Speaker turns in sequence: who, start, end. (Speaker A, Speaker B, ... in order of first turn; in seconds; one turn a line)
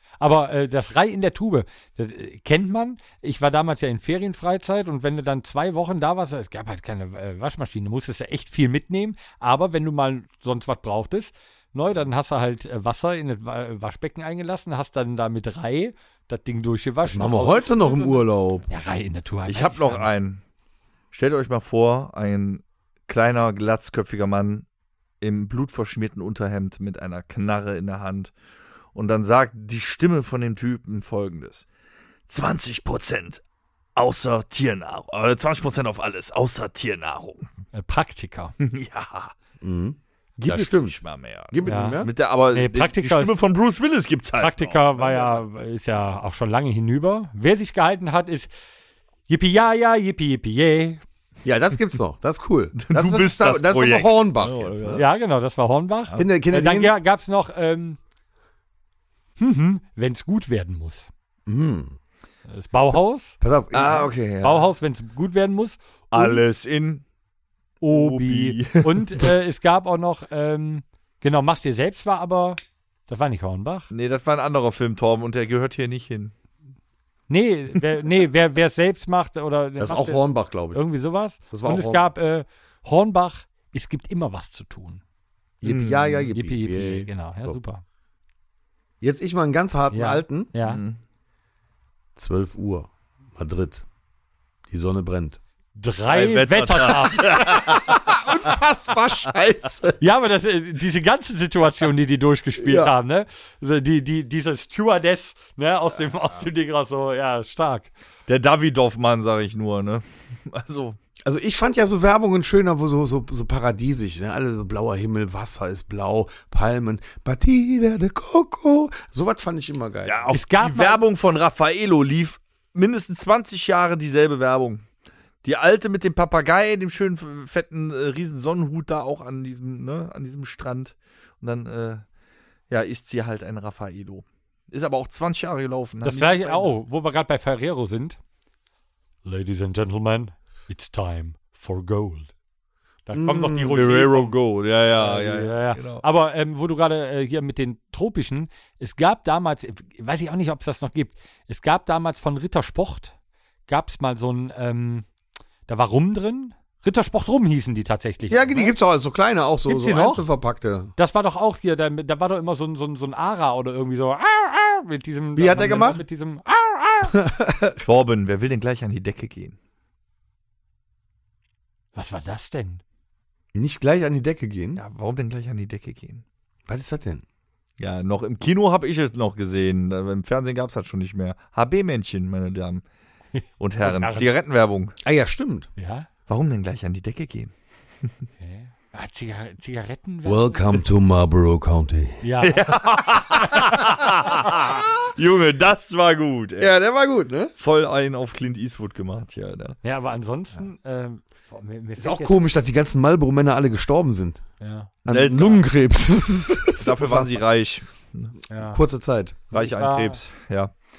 Speaker A: 0.2-20.1
Speaker B: 17.1-18.7
Speaker C: 19.5-20.4
Speaker C: 21.1-24.6
Speaker C: 25.2-28.3
Speaker C: 28.9-31.6
Speaker C: 32.3-33.4
Speaker C: 34.0-37.5
Speaker A: 37.7-38.5
Speaker C: 38.6-39.3
Speaker B: 39.6-41.0
Speaker C: 40.4-45.4
Speaker B: 41.5-42.1
Speaker A: 41.6-43.4
Speaker A: 44.4-48.5
Speaker A: 49.3-51.0
Speaker B: 51.4-55.0
Speaker C: 52.8-55.0
Speaker A: 55.0-58.0
Speaker B: 56.2-56.9
Speaker A: 59.4-61.1
Speaker B: 61.5-62.0
Speaker A: 62.5-63.4
Speaker B: 63.4-64.1
Speaker C: 63.7-64.7
Speaker A: 64.4-66.4
Speaker C: 66.1-67.0
Speaker A: 67.8-73.9
Speaker C: 67.9-69.3
Speaker C: 73.9-76.3
Speaker A: 77.3-85.0
Speaker B: 79.8-80.8
Speaker B: 81.5-82.0
Speaker B: 85.6-87.6
Speaker C: 85.6-86.3
Speaker A: 86.3-87.8
Speaker B: 89.0-90.5
Speaker A: 89.9-90.8
Speaker C: 90.6-91.0
Speaker B: 92.2-93.8
Speaker B: 94.7-95.4
Speaker A: 95.8-97.8
Speaker C: 96.1-98.2
Speaker B: 97.7-100.0
Speaker A: 100.0-107.9
Speaker B: 102.6-102.9
Speaker C: 108.3-111.0
Speaker B: 111.2-120.3
Speaker C: 120.0-124.8
Speaker A: 120.3-121.0
Speaker C: 125.4-132.0
Speaker C: 132.7-136.7
Speaker A: 136.0-138.2
Speaker A: 139.2-142.3
Speaker A: 143.1-144.4
Speaker B: 143.1-143.8
Speaker C: 143.7-146.0
Speaker A: 144.9-153.1
Speaker A: 153.7-155.1
Speaker A: 155.7-158.7
Speaker B: 158.3-160.9
Speaker A: 159.7-160.3
Speaker A: 161.0-167.2
Speaker B: 165.4-166.0
Speaker B: 167.1-167.8
Speaker C: 167.8-169.6
Speaker A: 171.9-172.8
Speaker B: 173.5-174.8
Speaker C: 174.8-176.2
Speaker B: 176.7-177.2
Speaker C: 177.8-182.8
Speaker C: 183.6-184.9
Speaker A: 183.8-184.3
Speaker B: 185.0-185.7
Speaker A: 185.8-186.1
Speaker C: 186.3-187.5
Speaker A: 188.4-190.8
Speaker B: 190.2-192.2
Speaker A: 192.2-192.7
Speaker C: 192.4-196.7
Speaker A: 193.4-193.8
Speaker B: 196.6-197.5
Speaker C: 197.6-199.8
Speaker A: 199.8-202.4
Speaker B: 202.0-204.4
Speaker A: 204.6-204.9
Speaker B: 205.1-207.4
Speaker C: 205.1-205.7
Speaker C: 206.7-208.3
Speaker A: 208.5-208.8
Speaker B: 208.6-209.4
Speaker A: 209.5-210.2
Speaker C: 209.5-210.7